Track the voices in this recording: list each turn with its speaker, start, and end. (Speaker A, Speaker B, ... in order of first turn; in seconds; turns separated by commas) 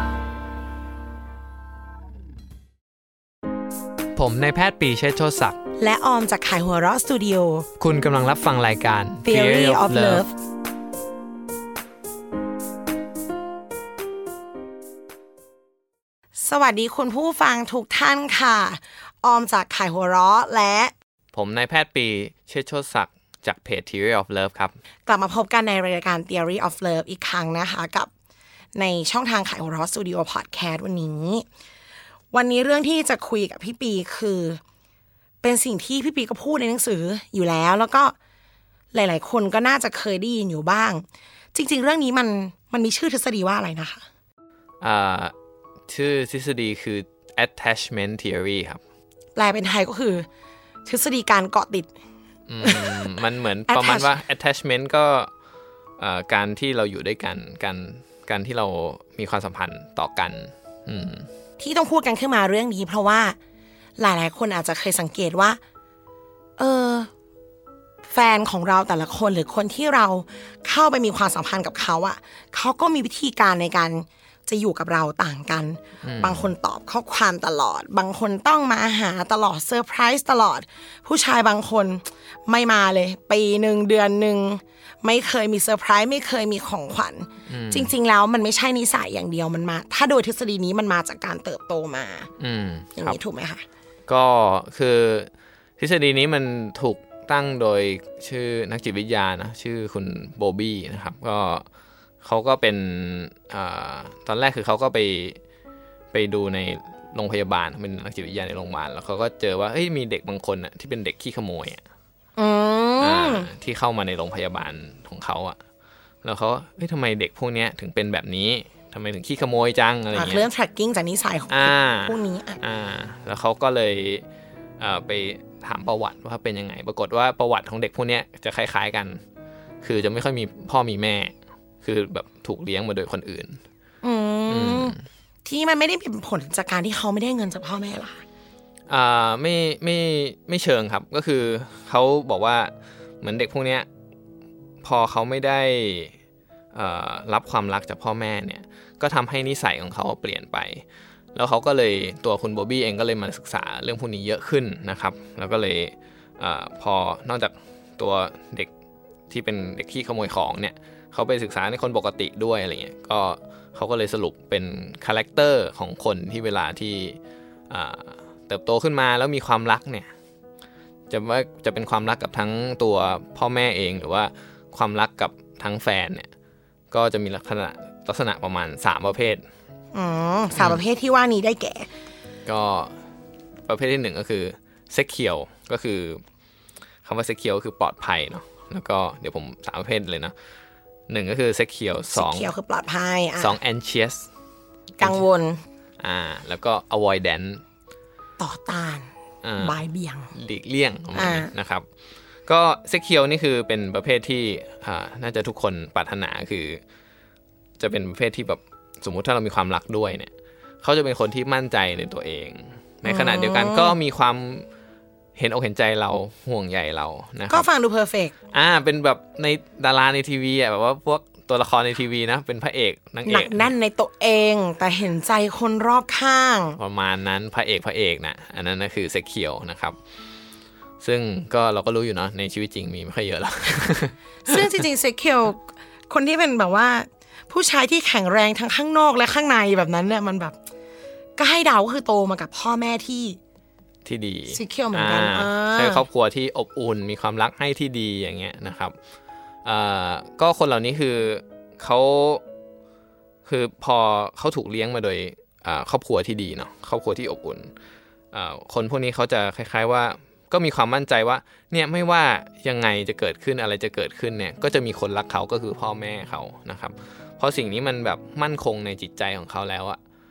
Speaker A: 4.2-5.6, Speaker B: 5.8-7.7, Speaker A: 7.8-10.3, Speaker B: 9.2-10.3, Speaker B: 16.4-20.9, Speaker A: 21.3-24.8, Speaker B: 25.1-28.1, Speaker B: 28.8-31.5, Speaker B: 32.3-34.6, Speaker B: 35.4-38.2, Speaker B: 38.9-44.0, Speaker A: 44.8-45.3, Speaker A: 45.9-48.8, Speaker B: 49.4-50.3, Speaker B: 50.9-51.9, Speaker A: 52.5-55.3, Speaker B: 52.6-53.1, Speaker B: 53.7-54.1, Speaker A: 56.0-61.3, Speaker B: 61.6-63.4, Speaker B: 64.0-65.6, Speaker B: 66.6-67.1, Speaker B: 68.0-92.3, Speaker A: 76.0-76.5, Speaker A: 87.5-87.9, Speaker A: 92.4-93.2, Speaker B: 93.0-93.7, Speaker A: 94.1-101.7, Speaker A: 102.2-105.4, Speaker A: 106.1-111.8, Speaker B: 112.4-113.5, Speaker A: 113.0-115.6, Speaker A: 116.2-120.5, Speaker B: 120.1-122.6, Speaker A: 121.5-124.2, Speaker A: 124.8-129.2, Speaker A: 129.8-133.6, Speaker B: 134.0-138.2, Speaker A: 134.5-135.0, Speaker A: 138.9-143.9, Speaker A: 144.8-146.1, Speaker A: 146.7-150.8, Speaker A: 151.3-158.7, Speaker A: 159.3-167.2, Speaker A: 167.7-170.1, Speaker A: 171.1-176.3, Speaker A: 176.9-179.4, Speaker B: 179.9-181.9, Speaker A: 180.6-180.8, Speaker A: 182.5-182.9, Speaker A: 183.7-186.2, Speaker A: 187.1-190.3, Speaker A: 191.1-192.5, Speaker B: 192.1-193.6, Speaker A: 193.4-194.3, Speaker B: 195.0-195.6, Speaker A: 196.0-197.6, Speaker B: 198.4-200.3, Speaker A: 199.4-199.8, Speaker A: 200.3-201.8, Speaker B: 201.1-201.5, Speaker A: 202.5-206.8, Speaker A: 207.8-210.3, Speaker A: 210.8-214.7, Speaker B: 213.1-214.0, Speaker A: 215.4-217.7, Speaker B: 217.5-218.3, Speaker A: 218.5-223.7, Speaker B: 223.2-226.8, Speaker A: 226.8-230.0, Speaker A: 231.0-234.7, Speaker B: 234.4-240.6, Speaker B: 241.4-243.4, Speaker A: 244.1-249.0, Speaker B: 244.5-246.1, Speaker A: 249.7-252.4, Speaker A: 253.5-257.7, Speaker A: 258.3-270.0